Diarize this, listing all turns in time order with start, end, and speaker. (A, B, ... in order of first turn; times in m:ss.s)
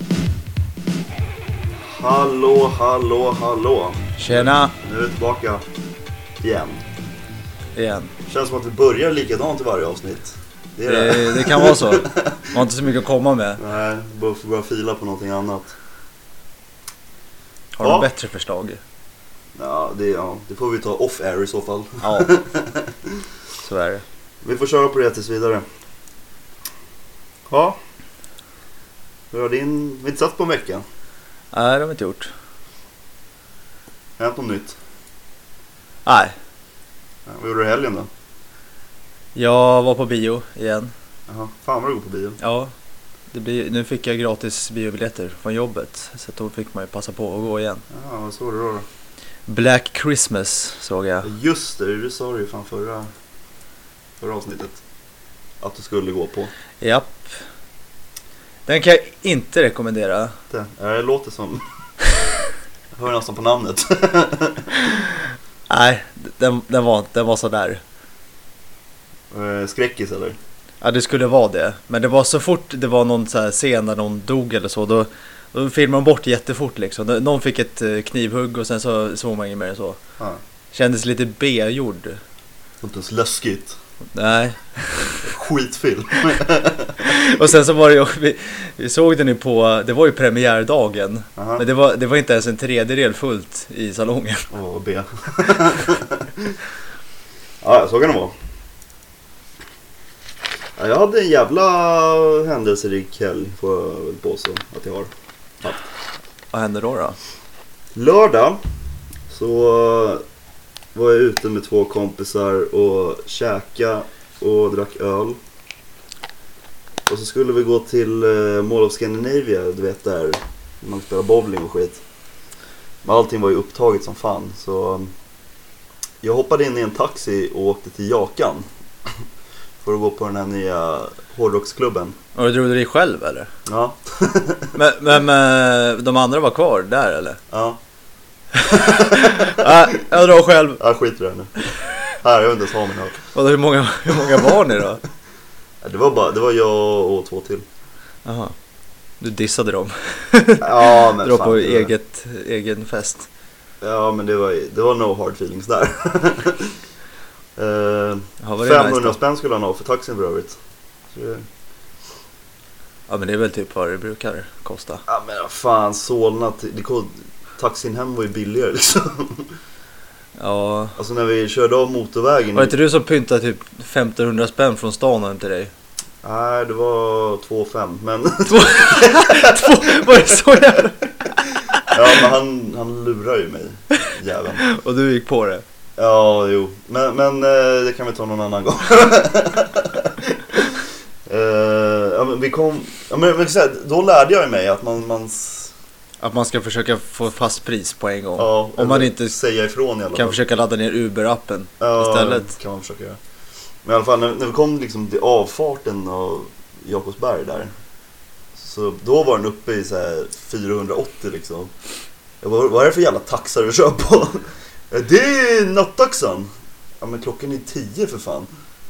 0:01.8-0:05.6 A
0:04.2-0:04.7 B
0:06.4-0:06.8 A
0:07.7-0:08.1 B
0:08.3-0:12.5 A
0:10.8-0:13.6 B
0:13.6-0:15.7 A
0:17.7-0:18.8 B
0:17.8-0:18.1 A
0:19.6-0:23.2 A
0:22.0-0:22.3 B
0:23.6-0:24.0 B
0:24.4-0:25.6 A
0:27.5-0:27.8 A
0:29.3-0:30.8 A
0:31.5-0:32.3 B
0:34.2-0:34.8 A
0:36.0-0:36.3 B
0:37.2-0:38.1 A
0:39.3-0:40.9 B
0:41.3-0:42.4 A
0:42.4-0:42.7 B
0:43.3-0:47.8 B
0:47.9-0:48.8 A
0:49.5-0:51.3 B
0:51.2-0:53.1 A
0:54.2-0:54.8 A
0:55.6-0:56.5 A
0:56.8-0:57.3 B
0:58.6-1:00.4 B
1:00.5-1:01.6 A
1:02.9-1:04.7 A
1:05.7-1:07.8 B
1:09.3-1:10.4 A
1:10.8-1:20.0 B
1:20.7-1:22.2 B
1:22.8-1:23.8 A
1:24.1-1:25.2 B
1:25.2-1:27.1 A
1:27.0-1:34.5 B
1:31.4-1:31.6 A
1:34.5-1:36.6 A
1:37.6-1:38.3 A
1:40.8-1:45.1 A
1:46.5-1:47.2 B
1:47.9-1:48.6 A
1:49.3-1:50.2 A
1:50.9-1:55.4 A
1:57.1-2:02.0 A
2:03.0-2:05.1 A
2:06.2-2:09.1 A
2:09.8-2:12.2 A
2:12.3-2:13.5 B
2:13.7-2:14.8 A
2:14.7-2:17.4 B
2:17.5-2:17.8 A
2:18.6-2:20.0 A
2:18.8-2:20.8 B
2:20.8-2:21.5 A
2:22.2-2:23.2 A
2:23.3-2:25.0 B
2:25.8-2:27.6 A
2:28.2-2:28.5 B
2:29.2-2:33.3 B
2:30.6-2:31.9 A
2:33.8-2:36.7 A
2:37.6-2:40.6 A
2:38.4-2:39.2 B
2:41.1-2:41.4 A
2:43.1-2:45.0 B
2:45.1-2:49.5 A
2:50.4-2:51.0 B
2:51.0-2:52.8 A
2:52.5-2:55.7 B
2:56.2-3:00.0 A
2:58.5-3:01.9 B
3:01.9-3:04.6 A
3:04.6-3:05.6 B
3:06.0-3:15.7 A
3:16.2-3:19.4 B
3:18.4-3:20.4 A
3:20.1-3:22.5 B
3:21.8-3:23.2 A
3:23.8-3:27.7 A
3:28.5-3:31.7 A
3:32.4-3:38.5 A